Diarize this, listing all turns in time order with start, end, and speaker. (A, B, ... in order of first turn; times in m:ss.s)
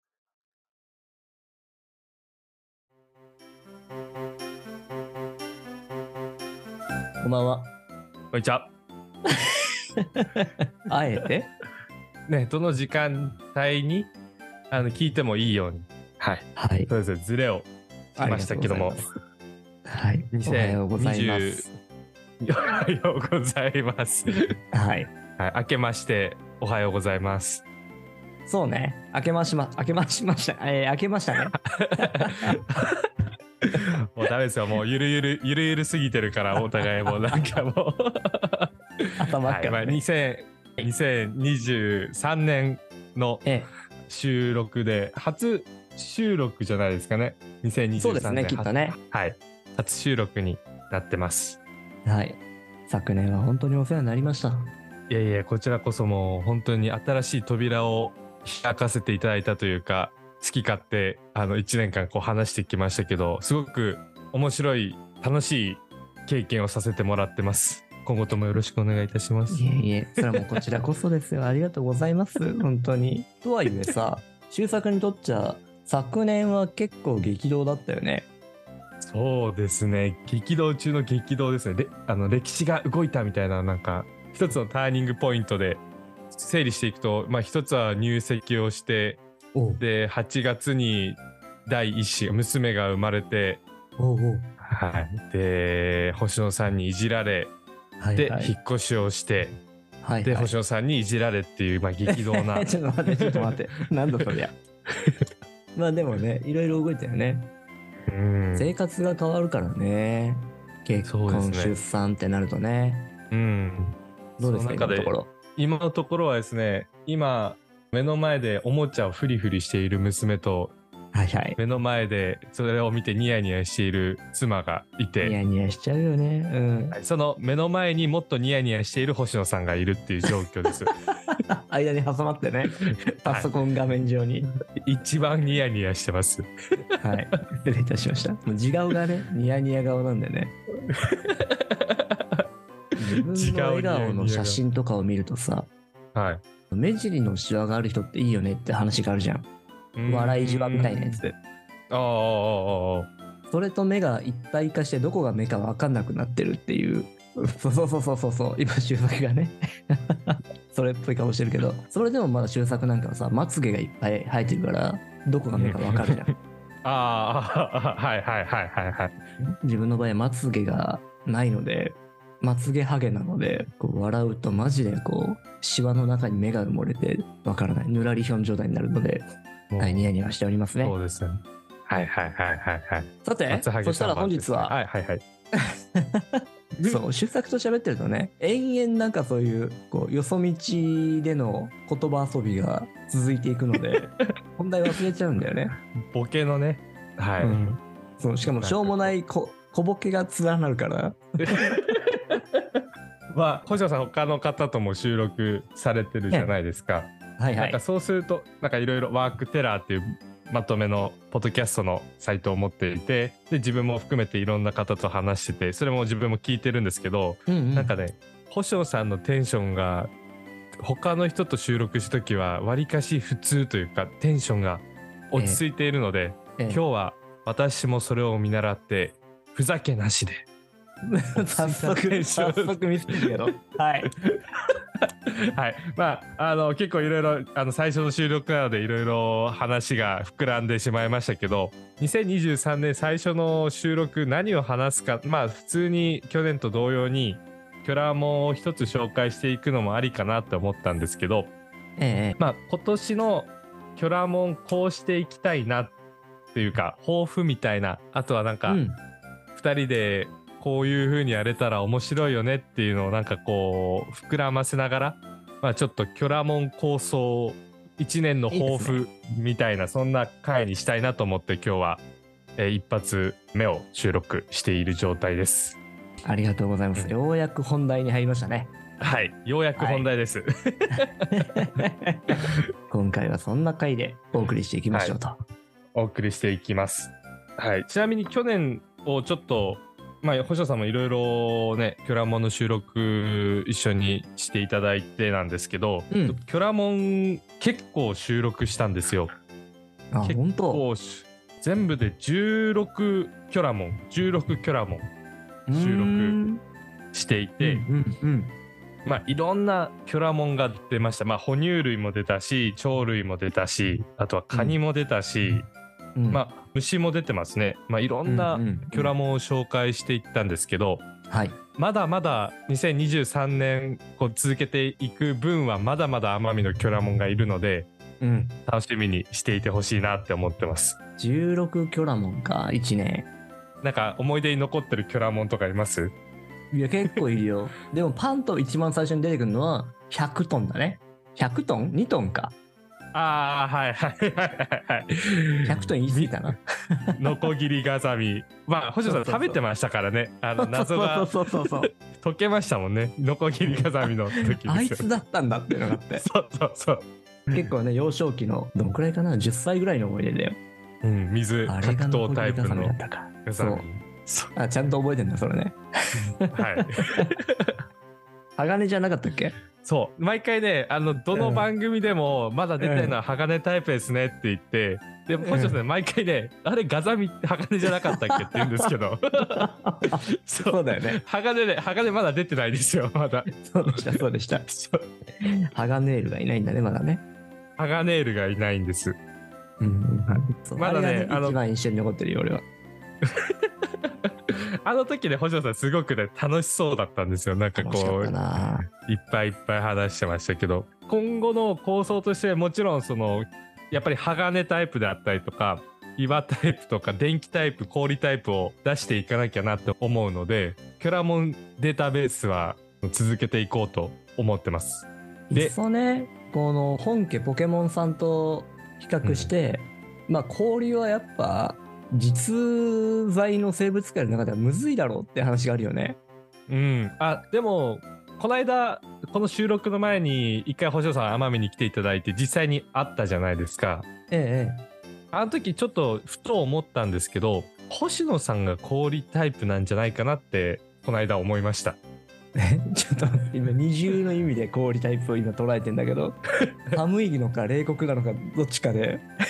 0:07.2-0:07.7 A
0:08.3-0:08.7 B
0:10.0-0:11.5 A
0:12.3-0:14.1 B
0:14.7-0:19.0 B
0:16.6-0:16.9 A
0:18.2-0:19.0 A
0:19.8-0:21.7 A
0:20.3-0:21.7 B
0:22.4-0:24.5 B
0:24.7-0:25.1 A
0:25.4-0:27.6 B
0:28.5-0:32.6 A
0:31.8-0:33.1 B
0:33.6-0:43.5 B
0:36.8-0:37.4 A
0:39.2-0:40.0 A
0:43.4-0:43.7 A
0:44.1-0:51.6 B
0:48.0-0:49.0 A
0:52.0-0:54.7 A
0:55.1-1:09.7 B
1:09.5-1:18.3 A
1:19.0-1:29.2 B
1:29.6-1:29.8 A
1:29.8-1:33.6 B
1:34.0-1:34.5 A
1:34.6-1:37.5 B
1:38.0-1:38.5 A
1:38.2-1:39.6 B
1:40.0-1:40.5 A
1:40.2-1:42.7 B
1:42.1-1:44.6 A
1:45.0-1:45.2 B
1:45.8-1:47.5 A
1:48.1-1:48.7 B
1:48.5-1:53.1 A
1:51.0-1:51.8 B
1:53.3-2:00.8 B
1:54.4-1:55.3 A
2:01.1-2:01.6 A
2:01.6-2:05.4 B
2:05.2-2:07.0 A
2:06.9-2:10.9 B
2:11.2-2:14.5 A
2:13.2-2:13.5 B
2:14.8-2:16.5 B
2:17.0-2:20.6 A
2:20.9-2:22.4 B
2:23.0-2:25.7 A
2:23.3-2:24.6 B
2:26.2-2:26.4 B
2:26.7-2:29.5 A
2:30.0-2:31.2 B
2:30.1-2:31.4 A
2:31.9-2:33.1 B
2:33.5-2:46.3 A
2:45.6-2:46.3 B
2:46.8-2:49.2 B
2:49.4-3:01.0 A
2:59.7-3:00.1 B
3:00.8-3:05.2 B
3:03.2-3:04.8 A
3:06.0-3:15.7 A
3:16.1-3:17.6 B
3:17.4-3:21.6 A
3:18.4-3:19.1 B
3:21.4-3:40.1 B
3:27.4-3:27.8 A
3:37.5-3:38.0 A
3:40.8-3:50.4 B
3:45.4-3:45.6 A
3:51.0-3:54.1 A
3:51.4-3:53.5 B
3:54.1-3:54.8 B
3:55.4-4:11.5 B
4:12.0-4:12.4 A
4:12.4-4:16.0 B
4:16.5-4:18.8 B
4:18.7-4:19.0 A
4:19.6-4:32.0 B
4:28.5-4:29.0 A
4:32.6-4:35.8 B
4:36.2-4:38.8 A
4:39.0-4:41.3 B
4:39.8-4:40.1 A
4:40.9-4:45.4 A
4:44.9-4:45.2 B
4:46.0-4:59.3 B
4:56.1-4:56.4 A
5:00.1-5:00.8 A
5:00.2-5:05.1 B
5:05.7-5:06.6 A
5:05.7-5:06.4 B
5:07.1-5:07.8 B
5:07.6-5:08.6 A
5:09.0-5:15.7 B
5:14.5-5:14.8 A
5:16.2-5:16.4 A
5:16.3-5:21.0 B
5:18.2-5:19.1 A
5:21.3-5:21.6 A
5:21.8-5:27.9 B
5:28.2-5:28.6 A
5:28.7-5:31.0 B
5:31.2-5:33.3 A
5:33.8-5:36.1 B
5:36.7-5:42.6 A
5:43.1-5:46.6 B
5:45.6-5:47.4 A
5:47.2-5:55.1 B
5:49.0-5:49.6 A
5:50.6-5:51.9 A
5:53.6-5:53.9 A
5:54.6-5:56.3 A
5:56.2-5:57.7 B
5:57.5-6:00.6 A
6:01.0-6:04.5 B
6:01.6-6:03.8 A
6:04.6-6:07.3 A
6:06.5-6:07.8 B
6:08.6-6:09.6 A
6:09.8-6:19.6 B
6:11.3-6:11.7 A
6:12.8-6:13.2 A
6:15.4-6:15.8 A
6:17.9-6:18.9 A
6:19.4-6:21.2 A
6:20.3-6:24.1 B
6:23.5-6:24.7 A
6:24.7-6:25.1 B
6:25.4-6:27.2 A
6:27.8-6:29.2 B
6:29.8-6:32.6 A
6:30.3-6:31.6 B
6:33.2-6:55.8 B
6:37.8-6:38.9 A
6:55.5-7:06.2 A
6:59.2-6:59.5 B
7:06.7-7:14.1 B
7:14.3-7:14.8 A
7:15.3-7:22.0 B
7:22.6-7:29.2 A